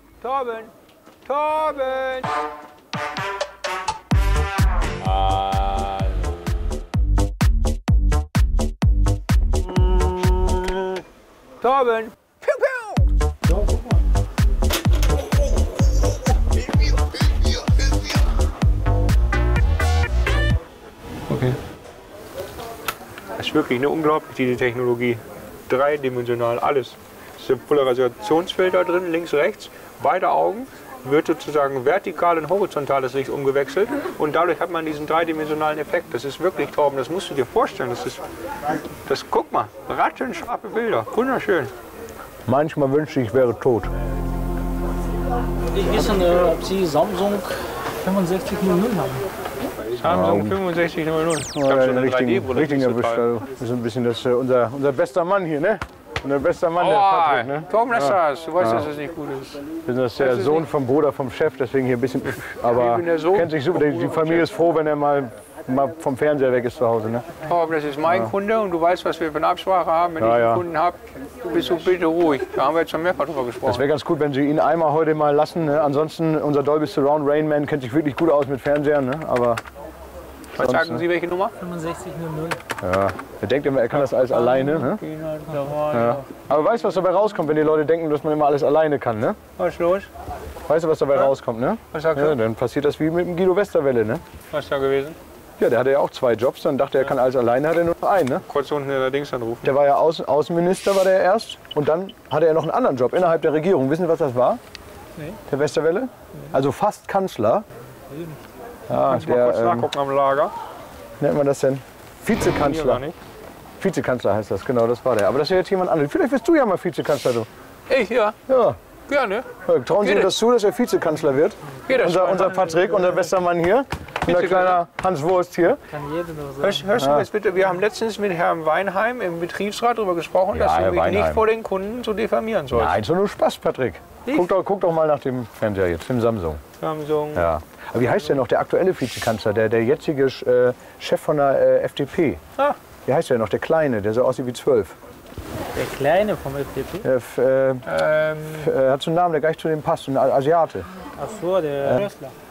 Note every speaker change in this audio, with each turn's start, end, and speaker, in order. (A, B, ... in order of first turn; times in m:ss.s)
0:00.2-0:00.7 A
0:01.3-0:02.4 A
0:05.0-0:06.2 A
0:09.7-0:10.9 A
0:11.6-0:13.1 A
0:16.4-0:17.7 A
0:21.3-0:21.6 A
0:23.4-0:38.2 A
0:39.1-0:41.7 A
0:42.5-0:43.9 B
0:45.8-0:49.2 C
0:49.9-0:53.3 A
0:50.0-0:50.6 B
0:51.5-0:58.9 B
0:56.8-0:59.7 A
0:59.8-1:07.2 B
1:00.2-1:00.7 A
1:02.3-1:04.5 A
1:07.4-1:13.8 A
1:08.1-1:08.3 B
1:10.2-1:10.6 B
1:13.6-1:19.6 B
1:20.6-1:21.6 A
1:20.6-1:21.0 B
1:21.6-1:22.6 C
1:22.8-1:25.0 B
1:23.9-1:26.3 A
1:25.9-1:29.4 B
1:29.6-1:30.1 A
1:30.7-1:34.2 B
1:31.9-1:32.4 A
1:34.5-1:35.2 A
1:35.6-1:38.4 B
1:38.5-1:39.8 A
1:39.6-1:44.6 B
1:45.5-1:47.6 B
1:48.9-1:49.9 B
1:49.1-1:50.5 A
1:51.2-1:53.0 B
1:52.4-1:53.2 A
1:53.8-1:57.5 B
1:57.9-1:58.4 A
1:58.5-1:58.8 B
1:59.1-2:00.3 A
1:59.6-2:05.8 B
2:01.8-2:02.7 A
2:04.2-2:04.8 A
2:05.9-2:06.8 C
2:06.6-2:13.0 A
2:07.0-2:07.3 B
2:10.5-2:11.5 B
2:12.7-2:16.6 B
2:16.8-2:17.5 A
2:17.3-2:22.4 B
2:23.1-2:25.0 B
2:25.7-2:27.0 C
2:27.0-2:27.9 B
2:27.8-2:28.7 A
2:28.5-2:30.9 B
2:31.2-2:32.3 C